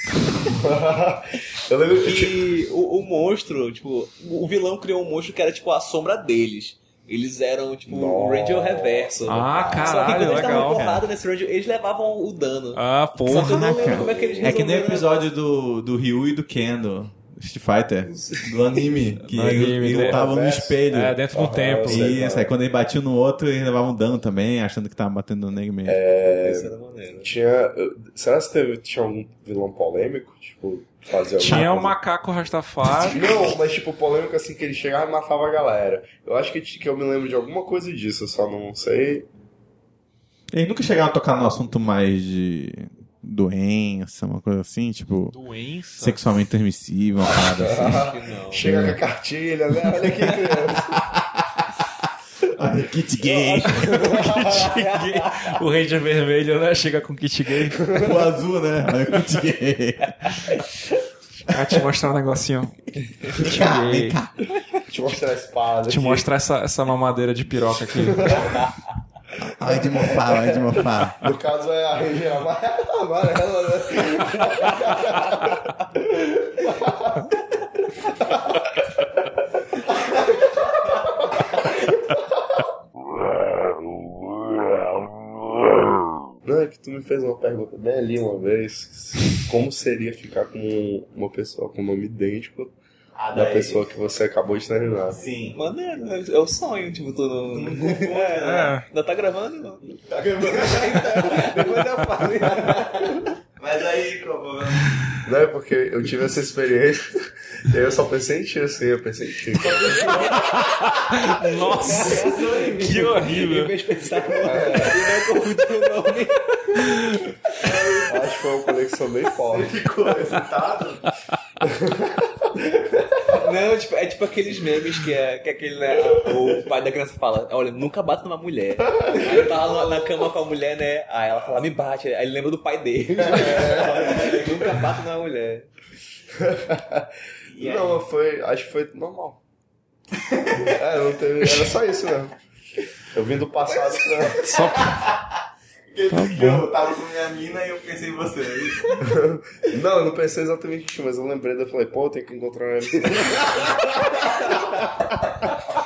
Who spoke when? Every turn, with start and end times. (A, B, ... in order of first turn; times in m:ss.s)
0:00.4-0:02.5 A
0:02.0-0:15.2 B
0:07.9-0:10.3 A
0:09.3-0:10.8 C
0:10.0-0:11.1 D
0:12.8-0:14.0 C
0:13.3-0:21.2 D
0:13.9-0:14.6 A
0:18.1-0:18.5 B
0:19.3-0:20.3 C
0:19.8-0:20.8 A
0:20.9-0:22.2 C
0:21.3-0:22.5 A
0:21.8-0:26.0 D
0:25.8-0:32.0 A
0:26.2-0:27.3 B
0:31.4-0:33.6 C
0:33.1-0:39.3 A
0:40.5-0:45.4 D
0:45.3-0:46.2 C
0:46.0-0:49.0 D
0:47.2-0:51.1 A
0:47.3-0:48.7 B
0:50.8-0:51.7 D
0:52.4-0:54.2 D
0:53.2-0:55.6 B
0:53.8-0:58.0 C
0:54.0-0:54.3 A
0:57.8-0:58.2 A
0:58.0-1:00.6 D
1:01.5-1:04.2 C
1:03.3-1:04.4 D
1:04.9-1:06.3 A
1:05.9-1:08.7 C
1:08.0-1:08.6 A
1:09.4-1:11.2 D
1:09.6-1:17.4 A
1:20.0-1:22.6 A
1:26.4-1:32.7 A
1:33.2-1:33.8 D
1:33.3-1:35.2 A
1:35.1-1:35.6 D
1:35.5-1:43.3 B
1:37.5-1:38.7 D
1:38.4-1:38.9 C
1:40.1-1:45.3 D
1:45.2-1:50.3 A
1:49.7-1:50.4 B
1:49.9-1:50.3 D
1:51.0-1:53.7 C
1:51.4-1:57.0 B
1:51.9-1:53.2 D
1:54.4-1:55.0 A
1:56.8-1:57.2 C
1:57.6-1:58.1 D
1:58.0-1:59.8 A
1:59.4-2:01.2 D
2:01.6-2:03.4 A
2:03.3-2:15.7 B
2:08.9-2:10.1 A
2:13.2-2:14.8 A
2:16.4-2:19.4 A
2:17.5-2:18.0 B
2:20.2-2:20.7 D
2:20.6-2:22.4 A
2:23.1-2:24.5 A
2:24.4-2:24.9 C
2:24.4-2:25.4 D
2:25.9-2:29.1 D
2:26.1-2:26.7 C
2:29.0-2:34.6 A